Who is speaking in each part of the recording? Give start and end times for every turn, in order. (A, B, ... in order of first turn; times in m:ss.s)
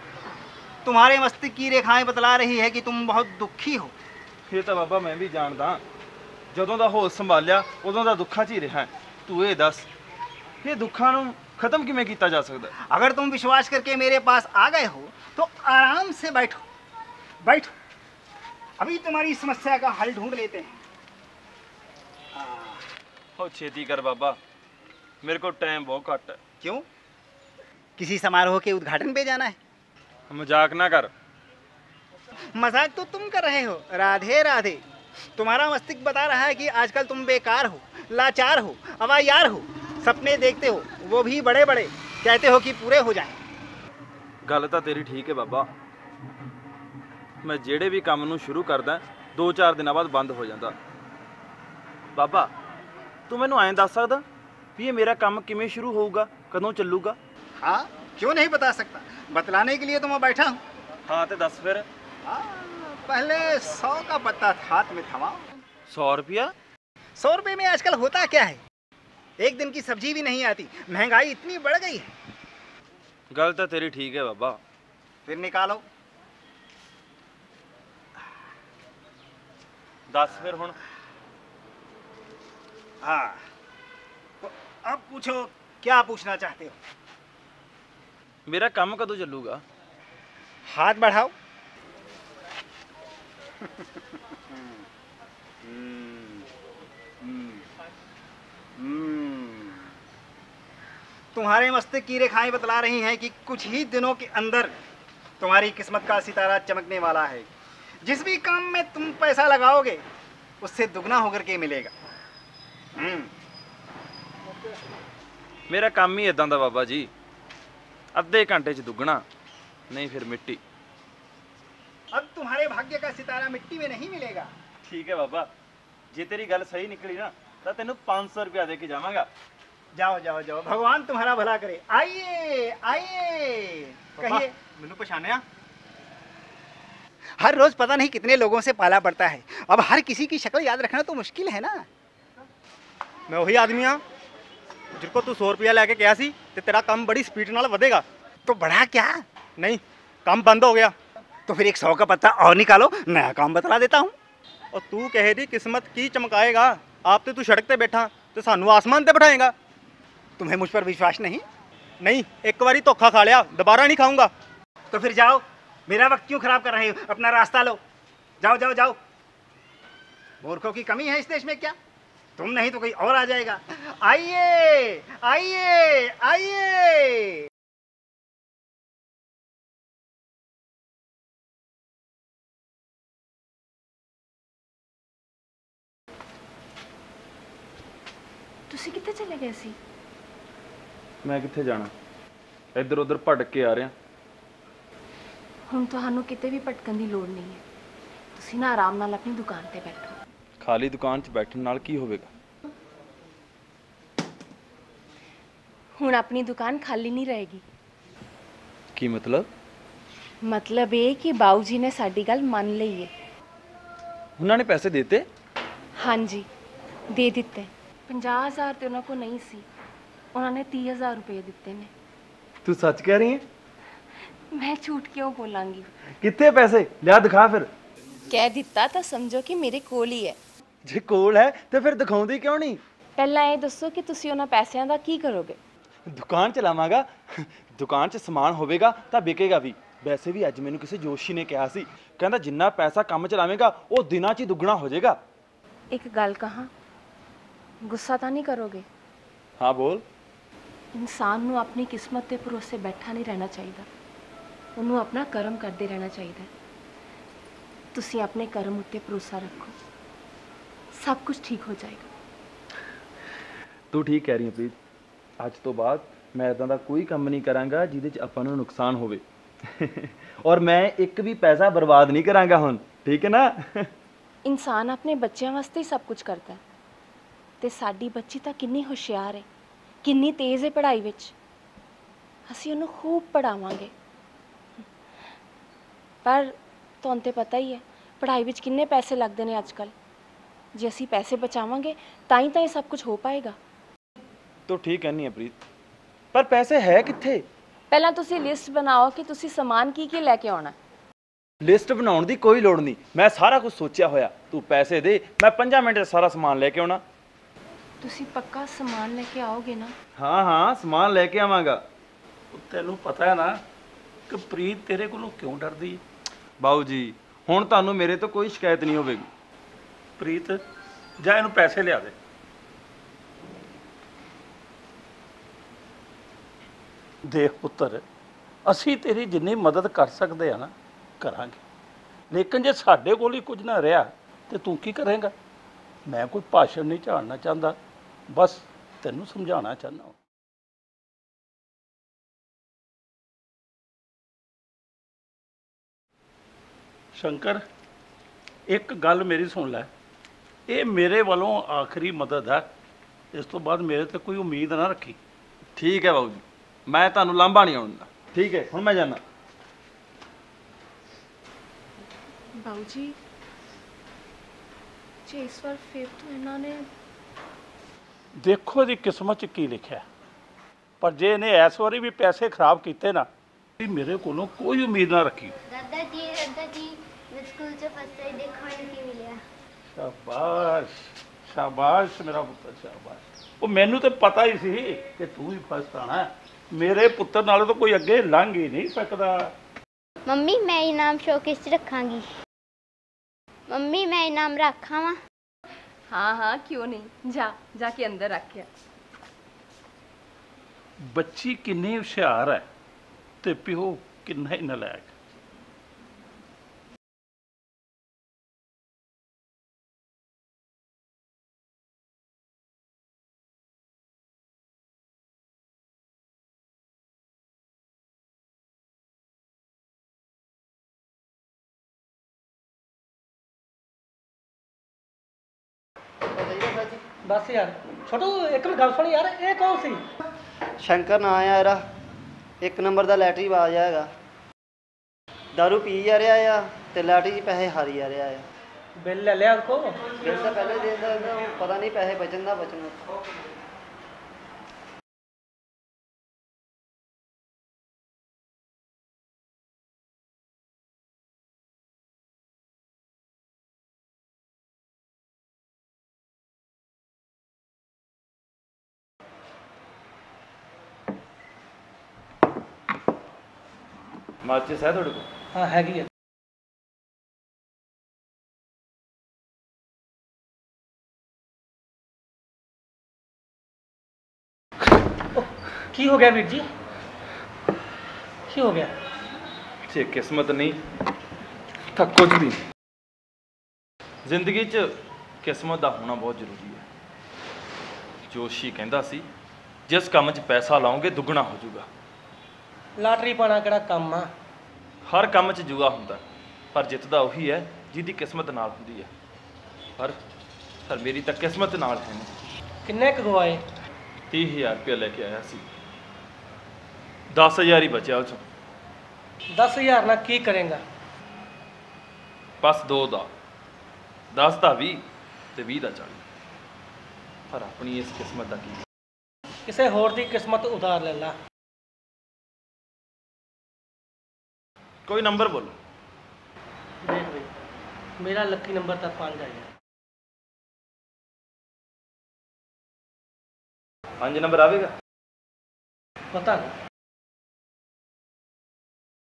0:00.8-0:03.9 A
0:04.5-0:05.8 B
0:06.5-0:09.9 B
0:10.6-0:12.7 B
0:12.9-0:16.6 A
0:17.4-0:17.7 A
0:18.8-0:20.7 A
0:22.3-0:22.8 A
0:23.4-0:24.4 B
0:25.2-0:26.4 B
0:28.0-0:29.6 A
0:30.3-0:31.1 B
0:32.6-0:34.8 A
0:35.4-0:43.4 A
0:44.4-0:45.7 B
0:47.4-0:50.8 B
0:52.2-0:52.5 B
0:53.3-0:54.2 B
0:54.8-0:57.2 B
0:57.6-1:00.6 A
1:01.1-1:01.9 B
1:02.2-1:05.4 A
1:05.9-1:06.5 B
1:07.2-1:08.6 A
1:09.4-1:12.1 A
1:13.3-1:14.6 B
1:15.2-1:15.8 A
1:20.1-1:20.7 B
1:23.0-1:23.4 A
1:24.4-1:26.8 A
1:28.5-1:29.6 B
1:30.7-1:31.3 A
1:38.8-1:39.6 A
1:41.3-1:44.7 A
1:45.4-1:47.5 A
1:48.0-1:50.0 A
1:50.6-1:51.9 A
1:53.0-1:53.3 A
1:55.7-1:57.1 B
1:58.1-1:59.2 B
1:59.9-2:00.6 B
2:02.1-2:04.5 A
2:04.8-2:05.5 B
2:06.1-2:09.3 B
2:10.0-2:14.9 A
2:14.2-2:15.4 C
2:17.4-2:21.9 A
2:23.3-2:24.0 C
2:25.0-2:28.0 C
2:28.4-2:29.2 A
2:29.6-2:30.9 C
2:31.5-2:34.1 A
2:34.7-2:39.5 C
2:40.4-2:41.4 A
2:42.0-2:44.3 C
2:44.9-2:47.8 A
2:48.4-2:49.0 A
2:50.4-2:51.8 A
2:52.4-2:57.5 A
3:08.7-3:09.8 D
3:11.2-3:11.9 B
3:12.8-3:13.9 B
3:15.7-3:17.6 D
3:18.3-3:20.2 D
3:20.6-3:22.3 B
3:26.0-3:27.6 D
3:29.0-3:29.5 B
3:30.4-3:33.1 D
3:34.4-3:35.2 B
3:36.0-3:36.5 D
3:37.1-3:39.6 D
3:40.3-3:41.9 D
3:42.6-3:43.4 B
3:44.5-3:45.9 D
3:46.2-3:47.7 B
3:48.3-3:50.4 D
3:50.8-3:52.8 B
3:53.2-3:55.6 D
3:56.1-4:05.2 B
4:05.9-4:06.7 D
4:07.8-4:08.8 D
4:09.6-4:10.0 B
4:10.9-4:13.9 D
4:14.8-4:16.5 D
4:17.9-4:19.8 D
4:20.9-4:22.1 D
4:23.9-4:24.7 B
4:25.4-4:33.9 B
4:34.4-4:36.6 D
4:37.6-4:39.5 D
4:40.0-4:41.3 D
4:42.5-4:43.9 D
4:46.2-4:49.9 D
4:50.7-4:53.6 D
4:54.7-4:55.6 B
4:56.3-4:57.4 B
4:57.9-5:00.8 D
5:01.6-5:07.0 B
5:08.0-5:09.9 D
5:10.2-5:11.8 B
5:12.5-5:13.6 E
5:14.3-5:16.0 E
5:16.6-5:19.3 B
5:20.2-5:20.6 E
5:21.2-5:22.1 E
5:27.3-5:28.0 E
5:28.6-5:31.6 E
5:32.3-5:35.3 E
5:36.1-5:37.8 E
5:38.3-5:40.2 E
5:47.1-5:47.6 E
5:48.7-5:49.9 E
5:50.7-5:52.7 E
5:53.3-5:55.2 E
5:55.8-5:59.2 B
6:02.5-6:03.2 D
6:05.3-6:06.9 D
6:08.4-6:10.0 E
6:11.0-6:13.3 E
6:13.8-6:15.5 E
6:15.6-6:19.4 F
6:19.9-6:29.5 E
6:30.3-6:32.3 F
6:33.7-6:35.2 F
6:36.1-6:38.7 D
6:41.0-6:42.6 E
6:43.4-6:45.1 E
7:06.3-7:07.0 G
7:07.2-7:10.0 H
7:10.8-7:11.8 G
7:12.6-7:14.1 G
7:15.5-7:18.4 G
7:19.0-7:20.0 H
7:20.2-7:23.2 G
7:44.4-7:45.3 B
7:45.5-7:46.1 H
7:55.3-7:56.6 H
7:58.5-7:58.9 H
7:59.9-8:00.8 B
8:01.9-8:02.6 B
8:04.2-8:06.8 B
8:08.3-8:09.2 B
8:09.9-8:11.9 B
8:13.0-8:14.3 H
8:15.1-8:16.2 B
8:16.7-8:19.1 B
8:20.8-8:22.3 B
8:22.8-8:23.6 H
8:24.3-8:25.6 B
8:27.3-8:28.4 B
8:29.6-8:30.8 H
8:32.6-8:33.3 B
8:34.3-8:35.0 B
8:35.5-8:36.2 B
8:37.5-8:38.8 B
8:39.7-8:41.3 H
8:45.0-8:45.8 B
8:47.0-8:47.5 H
8:48.2-8:49.7 H
8:54.2-8:54.9 B
8:56.3-8:56.7 H